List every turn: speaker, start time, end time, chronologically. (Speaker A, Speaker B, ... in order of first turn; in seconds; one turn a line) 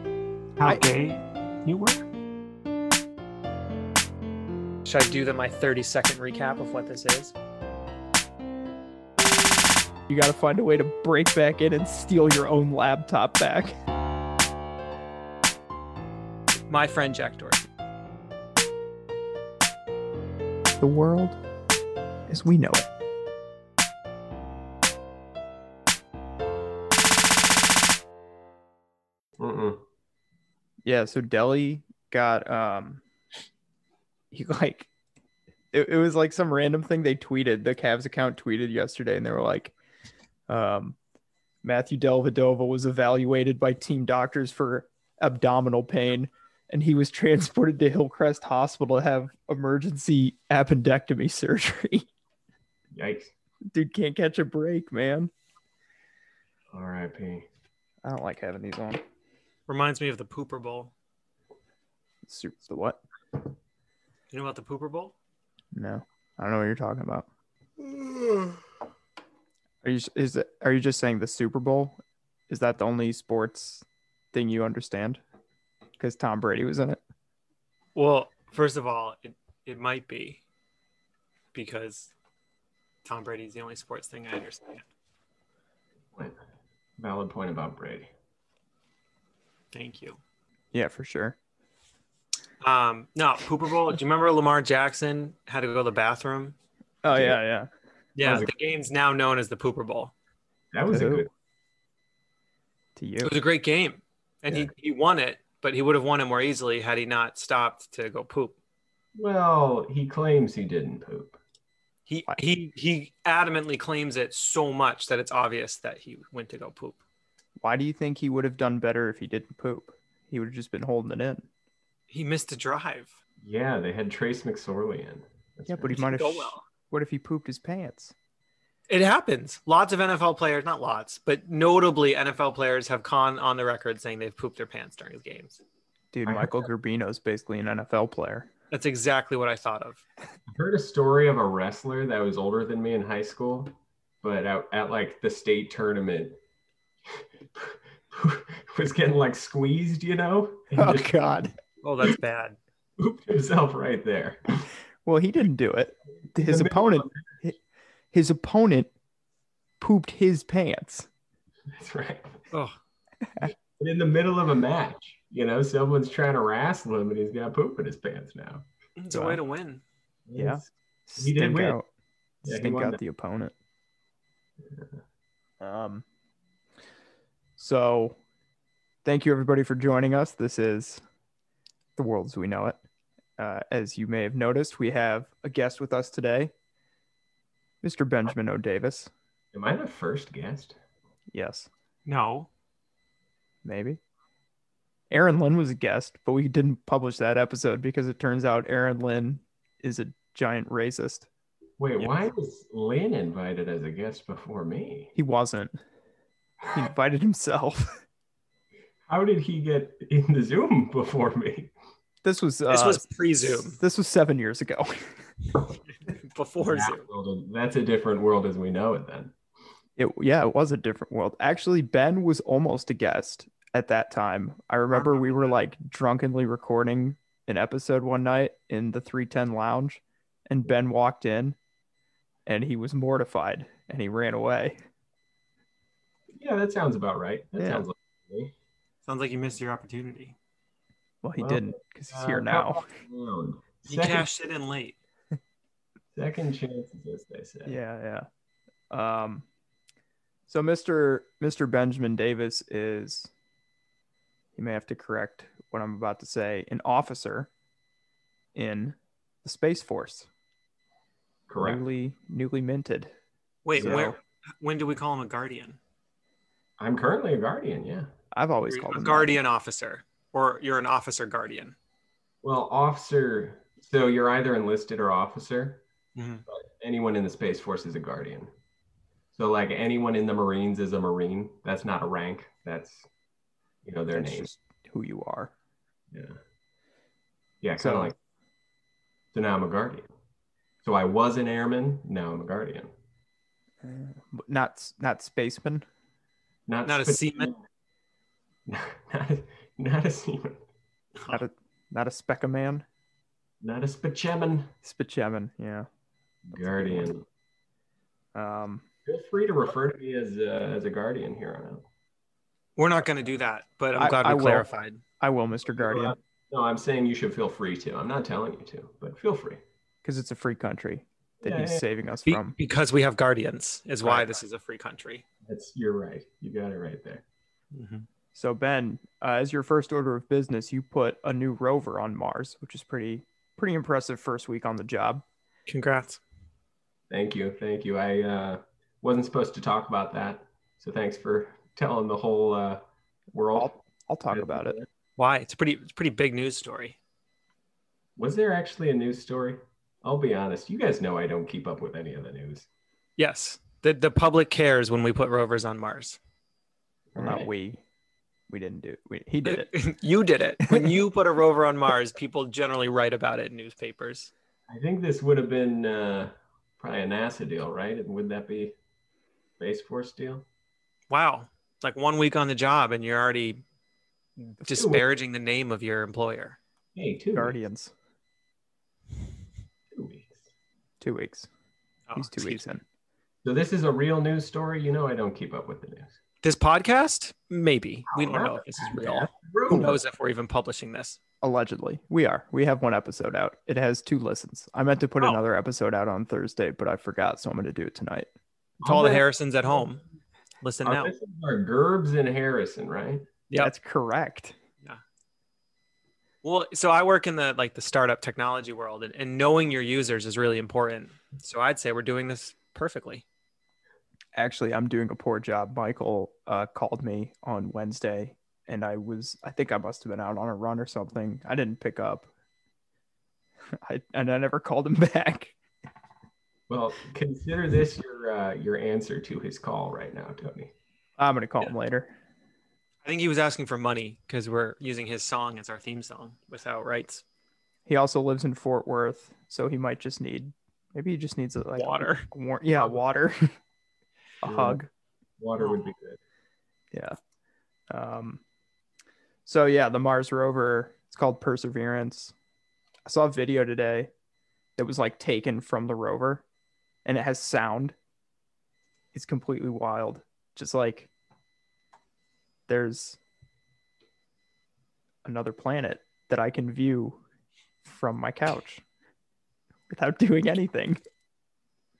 Speaker A: 0.6-2.0
Speaker A: 4.9-7.3
Speaker B: 10.1-13.8
Speaker A: 16.7-17.7
Speaker B: 20.8-21.4
Speaker B: 22.3-22.9
Speaker C: 29.4-29.8
Speaker B: 30.9-33.0
Speaker B: 34.3-34.9
Speaker B: 35.7-39.7
Speaker B: 40.5-41.0
Speaker B: 41.6-52.1
Speaker C: 52.9-53.3
Speaker B: 53.7-55.3
Speaker C: 56.7-57.5
Speaker B: 58.0-59.0
Speaker A: 59.7-60.9
Speaker B: 62.3-63.0
Speaker A: 64.3-65.1
Speaker B: 65.7-67.3
Speaker B: 69.8-72.0
Speaker B: 72.5-75.2
Speaker B: 76.0-77.0
Speaker A: 78.0-80.4
Speaker A: 81.5-82.1
Speaker A: 83.0-84.8
Speaker C: 87.0-88.1
Speaker A: 89.7-90.2
Speaker B: 90.7-91.4
Speaker A: 92.6-96.6
Speaker B: 97.0-97.7
Speaker C: 97.1-97.4
Speaker A: 98.2-100.1
Speaker C: 98.2-98.5
Speaker C: 100.7-101.3
Speaker B: 100.9-101.3
Speaker B: 103.0-103.4
Speaker A: 103.2-108.6
Speaker C: 109.2-111.4
Speaker A: 112.1-117.0
Speaker B: 117.6-121.5
Speaker A: 122.1-123.2
Speaker C: 123.4-126.0
Speaker B: 125.7-128.1
Speaker A: 125.9-126.6
Speaker A: 128.9-135.6
Speaker B: 136.1-138.5
Speaker C: 136.3-136.6
Speaker A: 138.7-140.0
Speaker C: 140.5-146.4
Speaker C: 147.1-151.2
Speaker B: 150.7-151.5
Speaker A: 151.8-152.6
Speaker C: 153.0-154.7
Speaker B: 155.1-157.6
Speaker C: 156.3-157.4
Speaker B: 158.1-158.9
Speaker B: 159.8-161.1
Speaker C: 161.7-162.4
Speaker C: 163.4-168.7
Speaker A: 169.0-169.8
Speaker B: 169.1-169.4
Speaker C: 170.3-170.7
Speaker B: 170.3-171.9
Speaker C: 171.2-171.8
Speaker C: 172.4-173.0
Speaker B: 172.4-173.5
Speaker B: 175.6-176.0
Speaker B: 177.6-178.2
Speaker B: 179.0-181.0
Speaker B: 182.0-182.8
Speaker B: 183.4-186.5
Speaker B: 187.8-189.1
Speaker C: 189.5-190.8
Speaker B: 191.3-191.7
Speaker A: 192.1-192.5
Speaker B: 193.7-194.0
Speaker B: 195.1-201.3
Speaker C: 201.8-205.1
Speaker B: 205.2-205.8
Speaker B: 206.7-208.0
Speaker C: 209.1-211.7
Speaker B: 212.2-215.2
Speaker A: 212.7-213.8
Speaker A: 216.1-217.0
Speaker C: 216.6-219.3
Speaker B: 220.0-231.6
Speaker A: 224.9-225.5
Speaker B: 232.5-234.8
Speaker C: 236.3-238.5
Speaker B: 237.6-237.8
Speaker A: 239.1-240.3
Speaker B: 241.2-242.9
Speaker C: 241.4-244.3
Speaker A: 243.9-245.0
Speaker C: 246.1-247.8
Speaker B: 247.7-248.3
Speaker B: 248.9-249.4
Speaker B: 250.5-253.3
Speaker B: 254.6-257.5
Speaker B: 258.6-260.3
Speaker C: 261.5-261.8
Speaker B: 261.6-263.1
Speaker A: 263.6-265.8
Speaker B: 263.7-264.2
Speaker C: 263.8-264.1
Speaker C: 266.8-268.1
Speaker B: 268.3-269.4
Speaker A: 268.7-271.8
Speaker C: 272.4-275.8
Speaker A: 276.1-276.4
Speaker C: 276.5-278.5
Speaker C: 279.3-283.1
Speaker C: 283.8-284.5
Speaker B: 284.1-285.5
Speaker C: 286.1-286.4
Speaker C: 287.6-288.1
Speaker B: 287.8-288.1
Speaker C: 289.3-290.1
Speaker C: 290.8-292.9
Speaker B: 293.8-295.9
Speaker C: 296.7-297.6
Speaker A: 296.9-297.5
Speaker C: 298.7-300.6
Speaker B: 301.3-302.9
Speaker C: 303.6-304.7
Speaker B: 304.8-305.9
Speaker C: 306.5-307.2
Speaker B: 306.5-307.1
Speaker B: 308.3-308.8
Speaker C: 309.1-311.9
Speaker A: 312.8-315.0
Speaker B: 313.9-314.7
Speaker B: 315.2-316.2
Speaker C: 315.7-319.6
Speaker B: 320.0-322.6
Speaker C: 321.4-321.8
Speaker A: 322.3-325.2
Speaker B: 324.0-324.3
Speaker C: 325.4-327.2
Speaker A: 327.7-328.1
Speaker B: 328.3-335.2
Speaker A: 335.7-336.2
Speaker C: 337.1-342.8
Speaker C: 343.3-343.7
Speaker B: 343.6-344.8
Speaker C: 344.3-344.9
Speaker A: 345.2-347.0
Speaker C: 348.2-352.7
Speaker A: 353.2-356.2
Speaker C: 357.1-357.5
Speaker B: 357.2-357.8
Speaker B: 358.5-359.7
Speaker A: 359.4-364.3
Speaker B: 360.6-361.0
Speaker C: 364.7-368.8
Speaker C: 369.6-370.4
Speaker A: 371.1-373.6
Speaker A: 374.4-376.6
Speaker C: 374.8-375.0
Speaker C: 376.9-377.6
Speaker B: 377.3-377.9
Speaker C: 379.9-380.4
Speaker B: 381.0-381.5
Speaker A: 382.1-382.6
Speaker B: 382.1-382.8
Speaker C: 383.4-386.2
Speaker A: 386.4-391.2
Speaker C: 388.1-390.0
Speaker B: 391.4-398.3
Speaker C: 398.8-399.8
Speaker A: 398.8-400.0
Speaker A: 400.6-401.1
Speaker C: 400.8-403.3
Speaker B: 403.6-404.6
Speaker A: 406.4-413.2
Speaker B: 414.4-422.3
Speaker B: 423.8-425.6
Speaker C: 426.7-430.7
Speaker B: 431.2-432.1
Speaker A: 433.0-437.2
Speaker B: 437.9-443.5
Speaker A: 441.8-442.3
Speaker B: 444.4-444.9
Speaker C: 444.4-444.8
Speaker C: 445.4-446.2
Speaker B: 447.9-448.4
Speaker B: 449.5-452.3
Speaker B: 453.1-454.1
Speaker B: 454.8-456.4
Speaker B: 457.1-457.9
Speaker B: 459.1-461.1
Speaker B: 462.7-463.2
Speaker B: 465.2-467.2
Speaker B: 467.8-468.8
Speaker B: 469.9-471.0